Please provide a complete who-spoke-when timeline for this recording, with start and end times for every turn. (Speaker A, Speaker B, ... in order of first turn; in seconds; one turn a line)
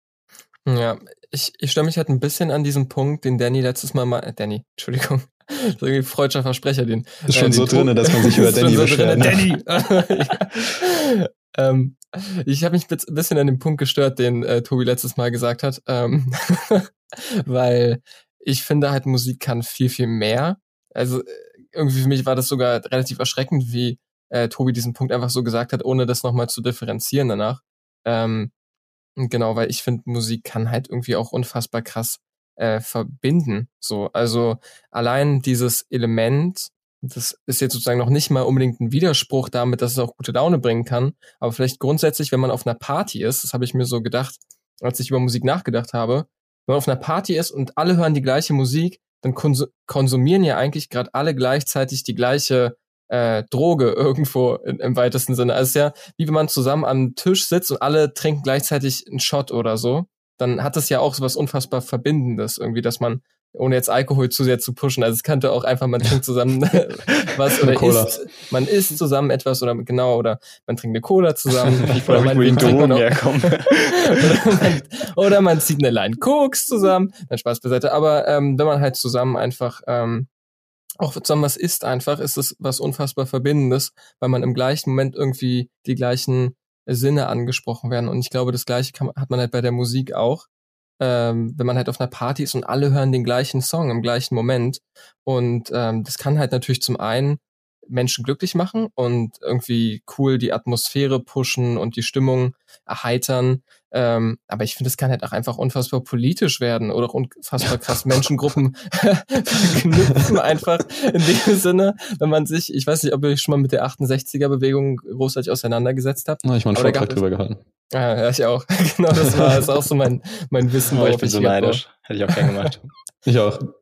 Speaker A: 0.7-28.5
Speaker B: 7.3-9.5
Speaker A: 29.2-73.5
Speaker B: 67.6-68.2
Speaker C: 72.0-74.4
Speaker B: 72.4-72.8
Speaker A: 74.0-80.3
Speaker A: 81.0-90.5
Speaker A: 91.0-117.2
Speaker B: 116.4-117.6
Speaker A: 117.9-121.8
Speaker C: 120.9-122.9
Speaker B: 123.2-123.7